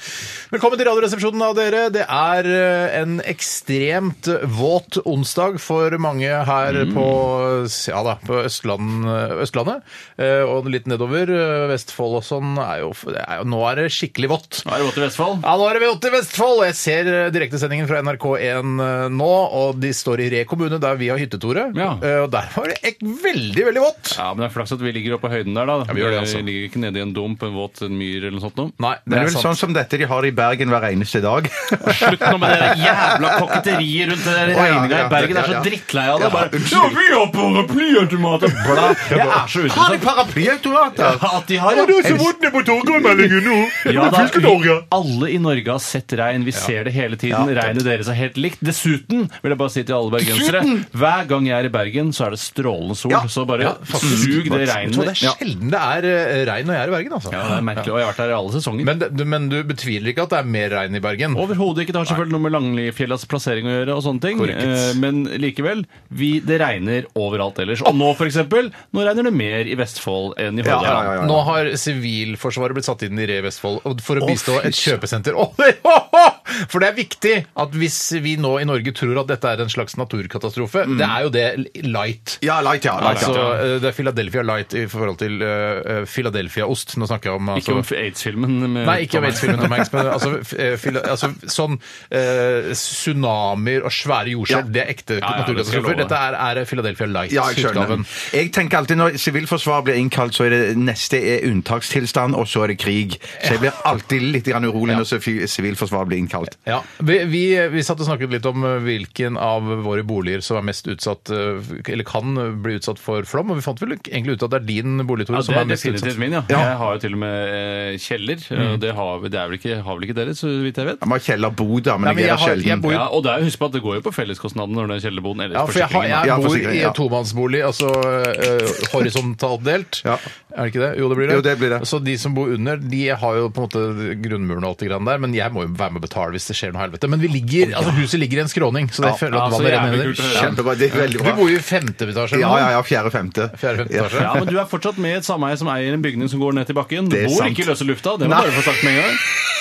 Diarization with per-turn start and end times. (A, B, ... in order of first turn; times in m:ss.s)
0:00.5-0:14.7 A
0:06.7-0:07.2 B
0:14.6-0:15.4 B
0:15.4-0:24.2 A
0:21.7-0:22.0 B
0:24.2-0:28.8 B
0:25.9-0:26.5 A
0:28.8-0:29.6 A
0:29.1-0:33.7 C
0:31.8-0:40.2 B
0:34.4-0:37.0 C
0:38.6-0:41.3 C
0:39.1-0:39.4 A
0:41.0-0:42.3 B
0:41.7-0:44.9 A
0:43.8-0:55.3 B
0:47.3-0:47.7 C
0:50.2-0:50.8 C
0:53.6-0:57.4 A
0:54.0-0:55.4 C
0:57.3-0:58.9 B
0:58.8-1:01.4 A
1:01.3-1:11.2 B
1:04.4-1:05.0 A
1:10.6-1:11.5 C
1:11.2-1:22.4 A
1:14.2-1:15.0 C
1:20.8-1:21.2 C
1:22.4-1:23.5 C
1:23.0-1:27.9 A
1:23.0-1:23.6 B
1:27.6-1:29.8 B
1:28.8-1:38.1 A
1:35.2-1:36.2 B
1:37.3-1:46.6 C
1:43.4-1:43.6 A
1:46.6-1:56.7 A
1:55.3-2:01.0 B
2:01.0-2:03.0 C
2:02.0-2:03.1 A
2:02.9-2:06.4 B
2:05.5-2:22.8 A
2:06.2-2:07.0 C
2:11.2-2:11.8 C
2:17.7-2:17.9 C
2:19.3-2:21.1 B
2:20.3-2:21.6 C
2:22.3-2:24.4 C
2:23.5-2:24.3 A
2:24.2-2:29.2 B
2:27.1-2:28.8 C